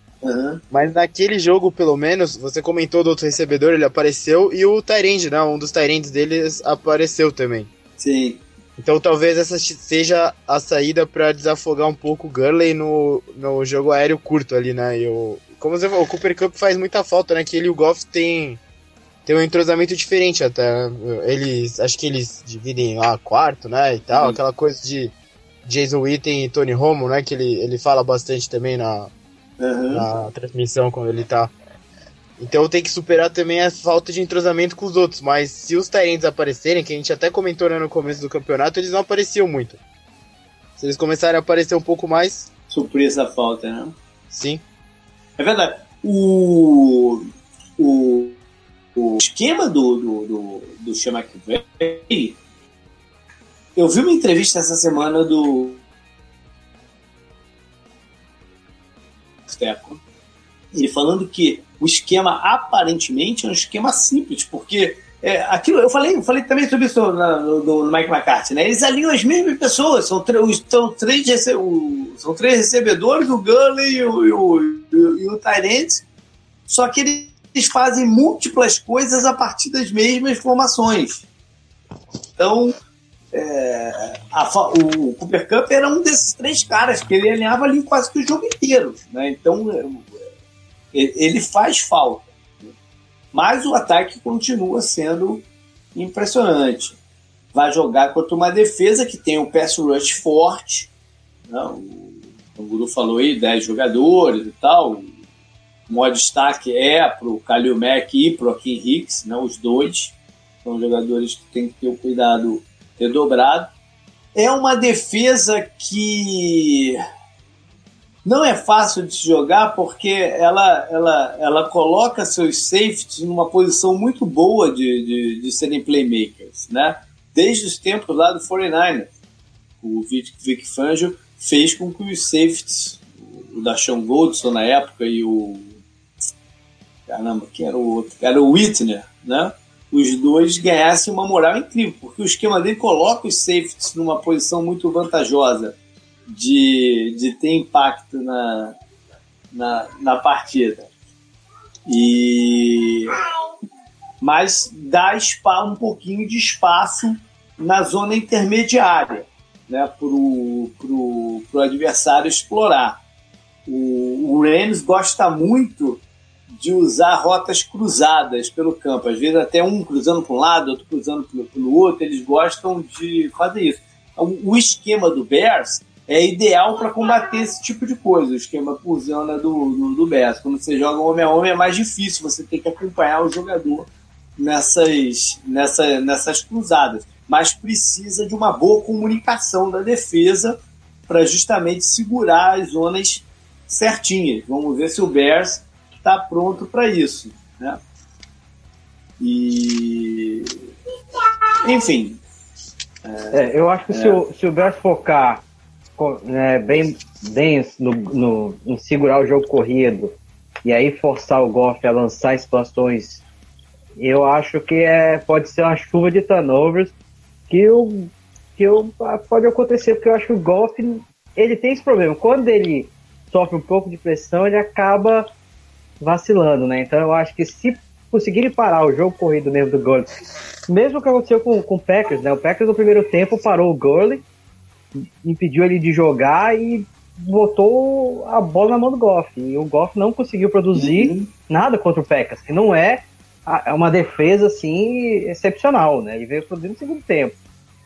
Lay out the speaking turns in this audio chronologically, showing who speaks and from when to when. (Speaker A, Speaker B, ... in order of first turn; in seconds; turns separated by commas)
Speaker A: 0.2-0.6, Speaker B: 0.7-7.7, Speaker A: 8.0-8.4, Speaker B: 8.8-18.6, Speaker B: 19.3-25.1, Speaker A: 24.1-24.4, Speaker B: 25.6-29.1, Speaker A: 29.6-30.1, Speaker B: 29.9-31.5, Speaker B: 32.4-39.8, Speaker B: 40.8-42.5, Speaker A: 42.7-44.0, Speaker B: 44.3-44.6, Speaker A: 45.4-47.3, Speaker A: 47.8-48.4, Speaker A: 49.0-52.4, Speaker A: 53.8-55.8, Speaker A: 59.5-60.0, Speaker A: 60.7-76.0, Speaker A: 76.7-81.2, Speaker A: 82.4-82.7, Speaker A: 83.3-90.1, Speaker A: 90.9-92.7, Speaker A: 93.3-95.4, Speaker A: 96.0-97.0, Speaker A: 97.5-100.9, Speaker A: 101.5-105.1, Speaker A: 105.9-113.7, Speaker A: 114.3-117.0, Speaker A: 118.2-129.1, Speaker A: 129.8-135.8, Speaker A: 137.1-145.8, Speaker A: 146.3-148.8, Speaker A: 149.5-150.9, Speaker A: 151.9-153.2, Speaker A: 154.2-163.0, Speaker A: 163.7-166.0, Speaker A: 166.6-190.6, Speaker A: 191.1-197.8, Speaker A: 199.2-200.6, Speaker A: 201.6-202.2, Speaker A: 203.1-203.4, Speaker C: 203.3-205.4, Speaker A: 203.9-204.2, Speaker C: 206.0-213.2, Speaker C: 214.0-216.9, Speaker C: 217.5-225.3, Speaker C: 226.0-230.1, Speaker C: 230.7-234.2, Speaker C: 235.0-247.4, Speaker A: 240.7-241.3